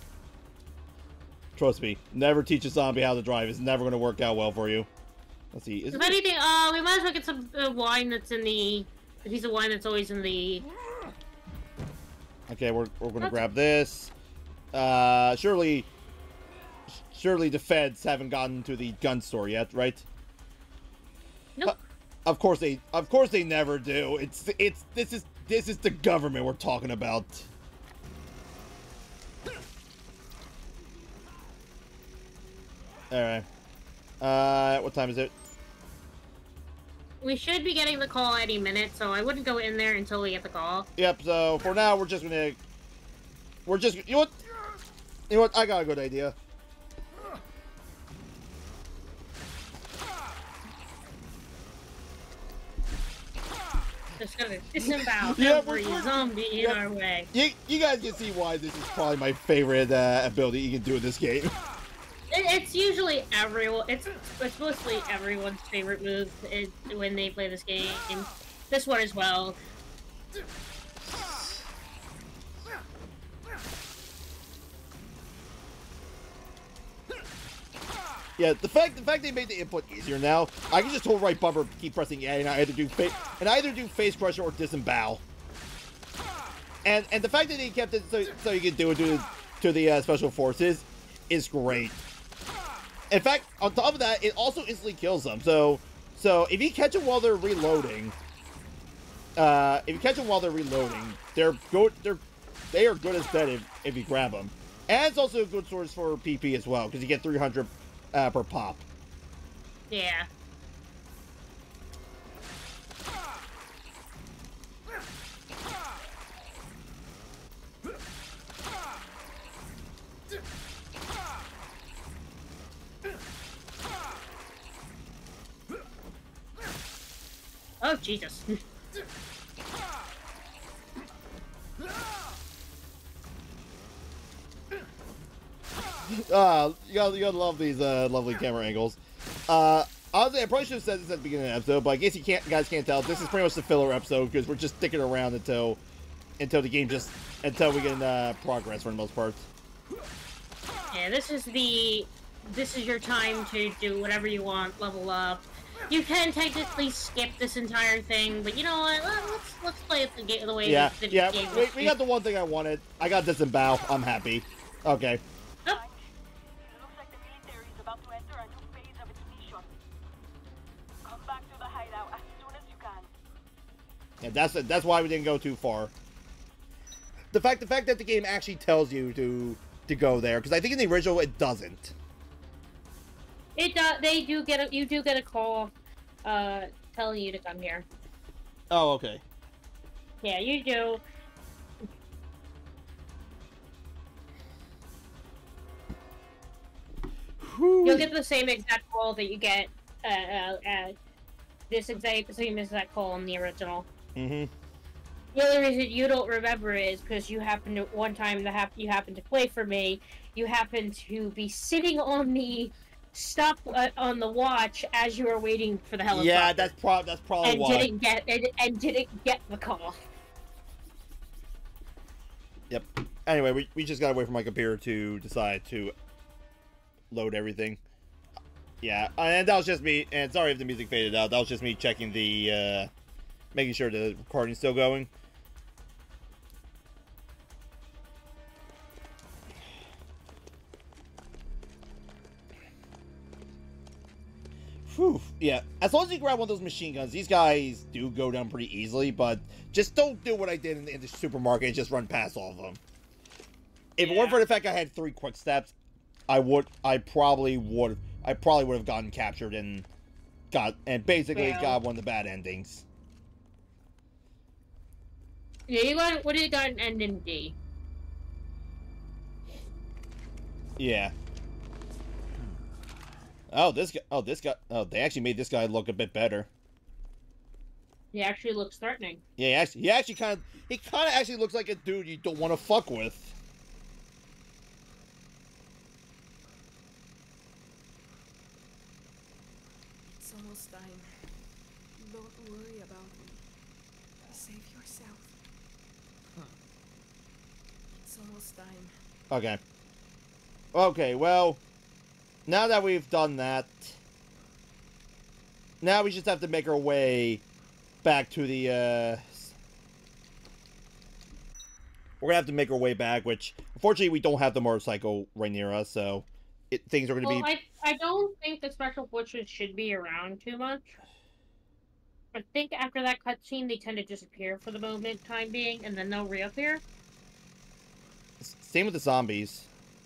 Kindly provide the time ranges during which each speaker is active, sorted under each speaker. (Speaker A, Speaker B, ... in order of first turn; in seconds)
Speaker A: 1.6-4.9, 5.5-6.2, 12.5-14.1, 14.7-15.9, 16.9-20.0, 21.6-27.5, 33.1-33.5, 34.2-35.3, 41.0-42.6, 43.6-44.4, 45.3-46.4, 54.8-56.8, 57.3-61.5, 78.4-85.2, 86.8-92.0, 93.1-98.1, 99.3-108.8, 136.1-145.8, 146.4-149.5, 160.6-165.2, 174.2-175.9, 177.3-181.9, 188.7-189.2, 197.4-198.1, 204.2-204.5, 216.1-217.9, 222.7-225.9, 227.1-227.8, 228.8-232.9, 233.5-235.1, 244.9-252.8, 254.0-255.7, 256.3-259.9, 260.5-262.8, 270.8-271.1, 273.5-276.5, 279.4-283.3, 299.3-299.6, 300.7-301.6, 302.5-304.0, 305.8-307.4, 308.0-309.5, 312.2-317.5, 328.4-329.7
Speaker B: 5.9-10.7, 37.2-40.9, 54.2-57.3, 62.3-69.6, 109.9-110.3, 127.8-128.6, 150.9-161.9, 183.5-185.7, 186.2-187.8, 190.2-191.0, 197.8-200.9, 201.7-203.9, 205.3-216.7, 217.4-220.0, 254.0-254.4, 261.3-261.8, 265.7-267.6, 278.1-279.2, 317.2-321.0, 322.3-326.8
Speaker C: 165.6-166.1, 166.6-169.7, 171.1-173.1
Speaker D: 290.0-291.1, 291.9-293.4, 294.3-295.4, 297.9-298.9